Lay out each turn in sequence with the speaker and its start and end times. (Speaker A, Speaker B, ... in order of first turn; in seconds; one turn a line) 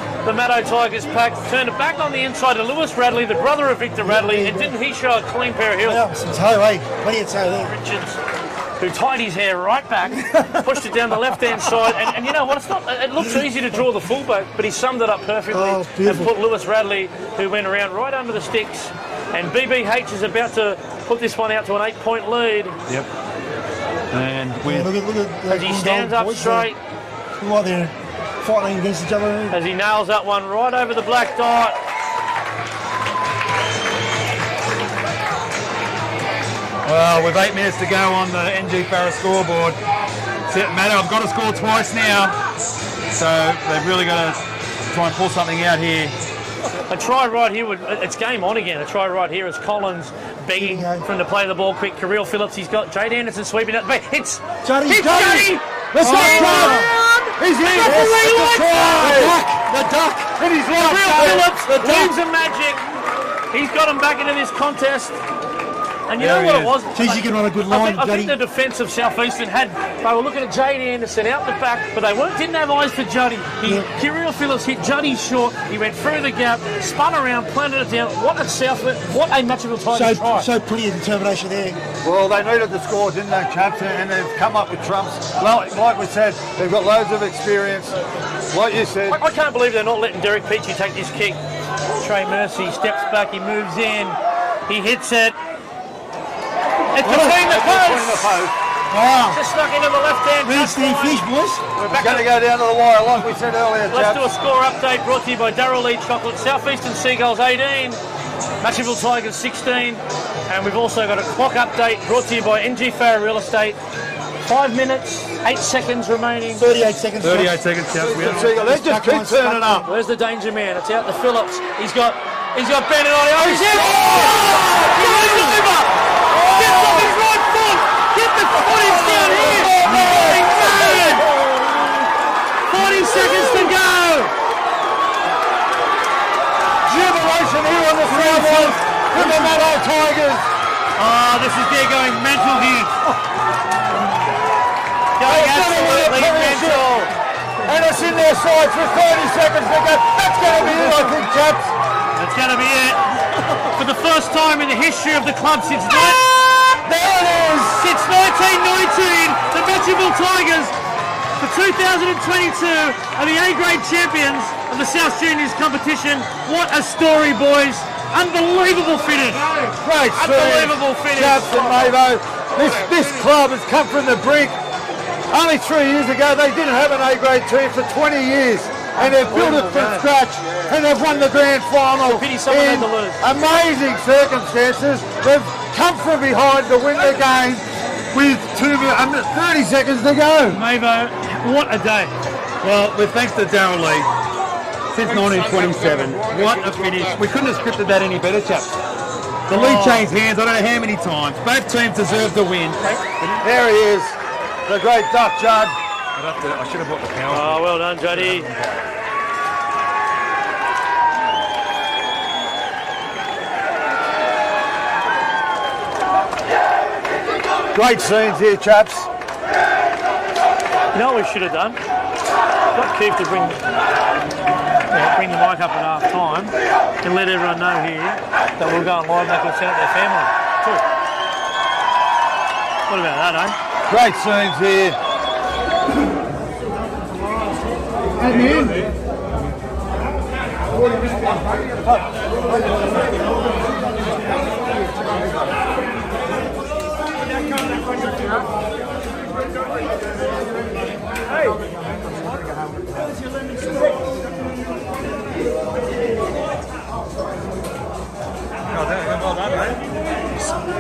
Speaker A: 0.2-6.0
Speaker B: 4.0-4.7
Speaker B: 5.8-7.7
Speaker A: 7.6-8.2
Speaker A: 8.8-22.8
Speaker B: 10.3-10.7
Speaker B: 15.5-16.3
Speaker C: 24.1-24.9
Speaker B: 24.6-26.7
Speaker A: 25.5-26.8
Speaker B: 27.4-29.6
Speaker A: 29.5-31.8
Speaker C: 36.9-39.8
Speaker C: 40.5-42.4
Speaker C: 43.2-46.1
Speaker A: 46.9-62.8
Speaker B: 50.6-51.0
Speaker B: 54.6-56.9
Speaker D: 56.0-59.4
Speaker B: 57.8-59.7
Speaker D: 60.4-62.1
Speaker A: 63.5-65.2
Speaker A: 66.1-80.5
Speaker C: 66.2-66.8
Speaker B: 66.9-68.3
Speaker B: 79.9-81.8
Speaker D: 82.0-88.0
Speaker D: 88.5-89.2
Speaker A: 89.1-91.4
Speaker A: 92.0-95.4
Speaker A: 97.0-98.4
Speaker D: 97.1-99.4
Speaker A: 99.3-102.3
Speaker B: 100.5-101.7
Speaker D: 101.9-104.2
Speaker A: 103.9-108.0
Speaker A: 108.6-113.8
Speaker A: 114.5-116.7
Speaker B: 116.6-117.5
Speaker C: 117.2-118.6
Speaker D: 117.9-119.9
Speaker B: 118.5-119.9
Speaker A: 119.8-131.3
Speaker D: 123.4-125.4
Speaker D: 126.3-127.1
Speaker D: 129.2-130.7
Speaker B: 129.7-131.2
Speaker A: 132.7-134.3
Speaker D: 133.2-133.7
Speaker D: 136.8-140.5
Speaker A: 138.1-139.6
Speaker A: 141.0-142.9
Speaker A: 145.2-147.1
Speaker D: 145.2-147.0
Speaker D: 147.6-151.7
Speaker A: 152.2-153.0
Speaker A: 153.7-156.2
Speaker A: 157.4-160.8
Speaker A: 161.4-169.6
Speaker D: 169.6-174.6
Speaker A: 170.1-171.9
Speaker D: 175.3-190.6
Speaker A: 179.0-180.1
Speaker A: 182.0-183.2
Speaker A: 190.5-192.1
Speaker C: 192.6-194.1
Speaker C: 194.9-198.7
Speaker D: 195.0-197.2
Speaker C: 199.5-202.9
Speaker A: 199.5-200.1
Speaker D: 203.4-205.8
Speaker C: 206.2-208.7
Speaker A: 207.3-208.5
Speaker D: 217.7-219.1
Speaker A: 220.9-221.8
Speaker A: 222.8-223.6
Speaker A: 224.9-230.8
Speaker A: 232.9-233.6
Speaker D: 233.9-235.0
Speaker D: 238.2-238.9
Speaker C: 258.7-259.8